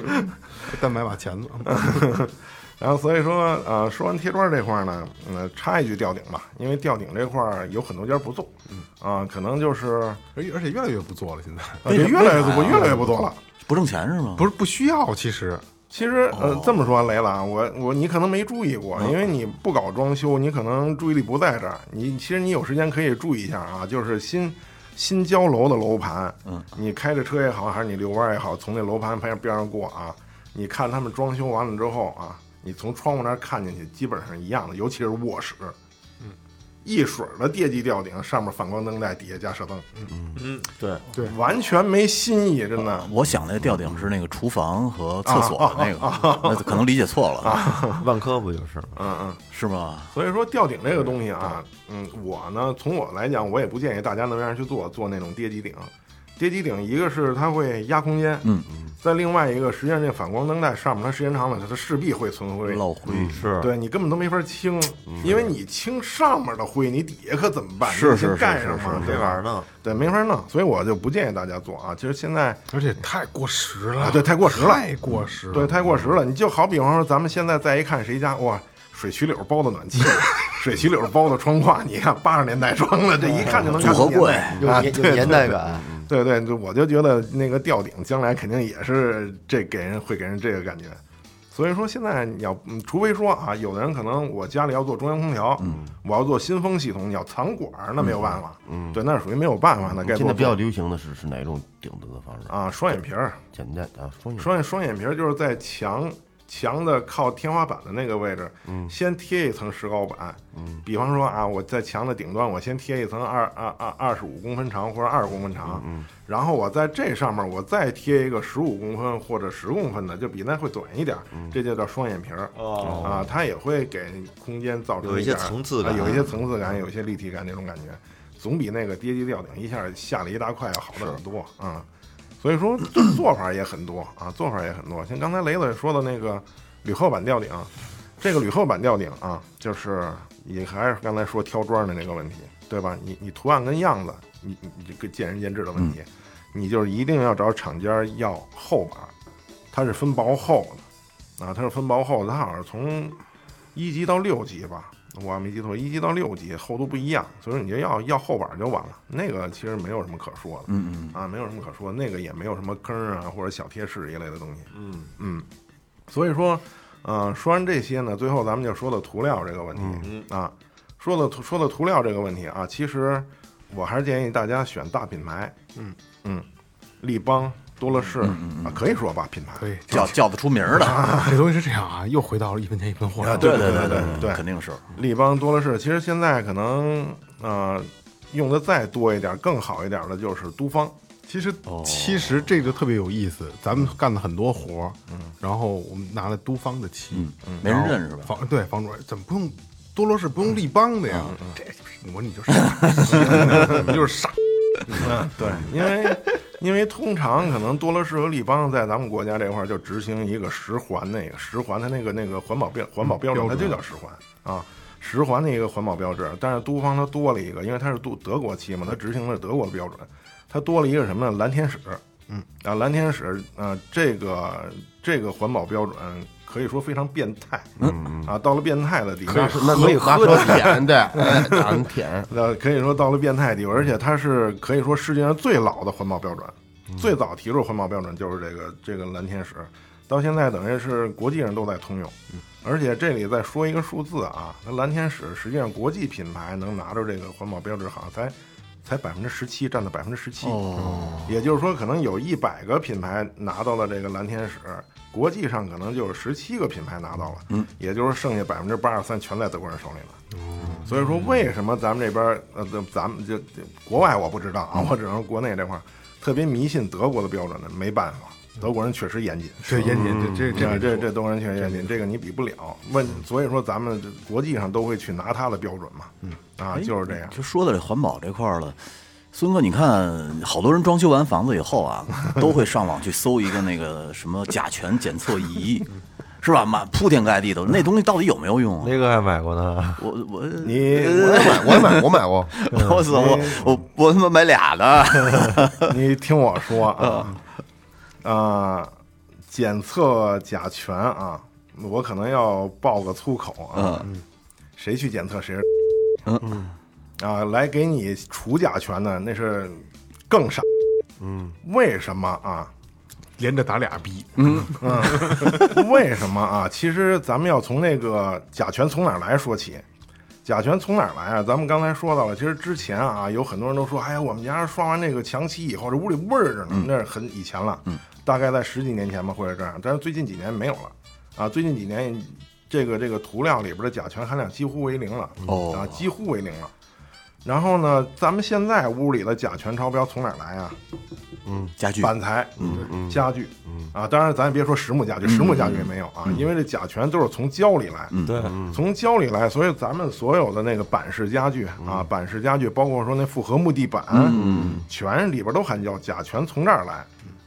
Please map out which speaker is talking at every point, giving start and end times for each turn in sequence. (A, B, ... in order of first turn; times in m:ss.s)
0:00.6-0:02.1 A
0:01.7-0:10.2 B
0:10.4-0:13.3 A
0:11.8-0:13.4 B
0:11.8-0:13.1 C
0:13.6-0:14.5 C
0:14.4-0:15.6 A
0:15.9-0:35.7 B
0:16.3-0:16.8 C
0:36.8-0:39.9 B
0:40.1-0:40.4 D
0:40.5-0:41.1 E
0:41.2-0:43.1 B
0:42.8-0:47.6 C
0:45.2-0:46.8 B
0:47.4-0:48.1 B
0:48.0-0:49.0 E
0:49.0-0:49.4 B
0:49.5-0:50.1 C
0:50.1-0:58.5 B
0:59.0-1:02.8 B
1:02.6-1:03.5 C
1:03.1-1:03.4 D
1:03.2-1:03.7 E
1:03.6-1:12.7 B
1:05.1-1:05.5 D
1:07.8-1:09.1 C
1:08.9-1:09.7 E
1:12.7-1:15.7 A
1:14.0-1:14.8 B
1:15.5-1:31.0 B
1:23.2-1:23.9 E
1:23.7-1:24.7 C
1:24.6-1:26.0 E
1:25.6-1:26.1 D
1:31.5-1:40.6 B
1:38.7-1:39.0 D
1:39.9-1:42.5 D
1:42.5-1:43.4 B
1:43.5-1:44.5 D
1:44.4-2:11.8 B
1:48.7-1:48.9 D
1:50.5-1:50.8 D
1:55.6-1:56.1 D
2:02.6-2:03.3 E
2:02.8-2:03.3 D
2:05.0-2:06.3 E
2:12.4-2:29.1 B
2:29.7-2:30.8 B
2:31.4-2:33.2 B
2:33.7-2:45.4 B
2:40.7-2:41.2 C
2:46.1-2:55.6 B
2:49.8-2:50.1 D
2:57.0-3:00.1 B
2:58.2-2:58.8 C
2:59.6-3:00.2 A
2:59.9-3:01.2 C
3:00.8-3:01.4 B
3:00.8-3:04.2 A
3:03.2-3:10.9 B
3:03.3-3:04.8 C
3:11.3-3:25.3 A
3:11.7-3:12.4 C
3:17.1-3:18.3 C
3:21.3-3:21.6 B
3:22.9-3:23.8 C
3:23.2-3:23.8 B
3:25.0-3:42.0 B
3:33.2-3:33.8 A
3:42.6-3:51.8 B
3:47.8-3:48.4 D
3:49.3-3:52.3 D
3:52.3-4:10.6 B
4:10.4-4:11.2 C
4:10.8-4:11.3 A
4:11.3-4:20.2 B
4:20.3-4:20.9 A
4:20.8-4:37.4 B
4:29.6-4:31.9 A
4:29.9-4:30.7 D
4:36.7-4:38.8 C
4:39.3-4:48.9 C
4:48.8-4:50.0 E
4:50.0-4:55.9 C
4:50.6-4:51.6 B
4:51.1-4:52.5 D
4:52.7-4:53.0 E
4:53.1-4:53.8 B
4:55.8-4:57.4 B
4:56.9-4:57.4 C
4:58.2-4:58.9 B
4:59.5-5:04.1 B
5:03.7-5:04.1 C
5:04.8-5:05.7 B
5:06.3-5:06.5 C
5:07.2-5:10.7 B
5:11.2-5:11.6 D
5:11.6-5:12.7 B
5:13.4-5:15.8 A
5:14.4-5:15.2 C
5:14.8-5:19.8 B
5:20.4-5:36.7 B
5:35.4-5:36.0 C
5:37.4-5:40.8 B
5:41.4-5:41.7 D
5:41.8-5:42.9 C
5:42.0-5:57.1 B
5:42.7-5:43.8 D
5:45.2-5:46.4 C
5:48.1-5:48.5 C
5:48.3-5:48.6 E
5:48.4-5:48.8 D
5:54.1-5:54.8 C
5:54.4-5:54.7 D